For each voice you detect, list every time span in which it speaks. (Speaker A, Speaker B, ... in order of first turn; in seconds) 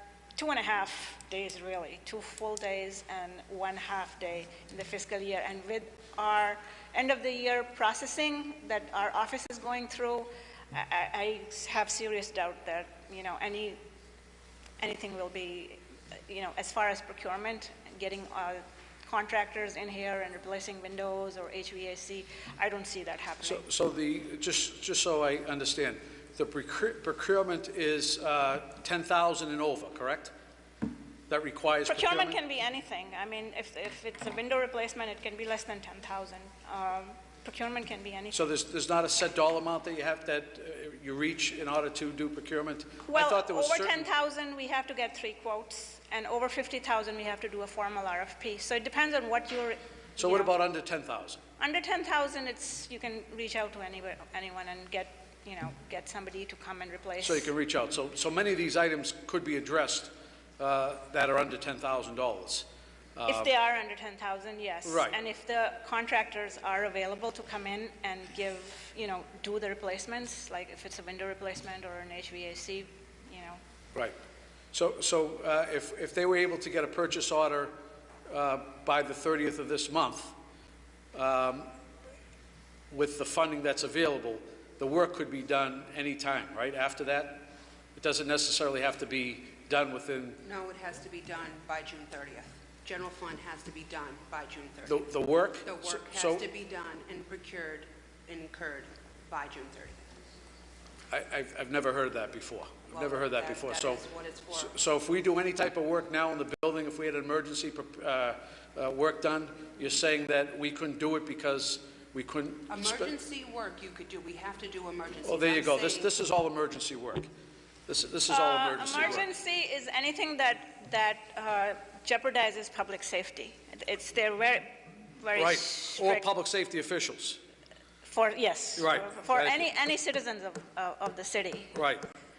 Speaker A: 0.3-13.8, 14.8-23.6, 31.9-38.4, 43.0-50.6, 51.6-57.5, 63.2-73.6, 118.3-126.3, 128.0-131.7
Speaker B: 23.5-30.3, 31.3-32.4, 38.3-44.1, 50.2-51.4, 57.2-63.5, 64.8-65.1, 74.7-80.3, 81.1-81.7, 82.9-90.4, 94.9-96.4, 101.1-113.1, 115.2-117.3, 117.9-119.2, 125.3-127.4, 128.8-129.7, 131.7-132.1
Speaker C: 90.4-95.1, 95.6-100.0, 102.9-104.8, 112.7-116.1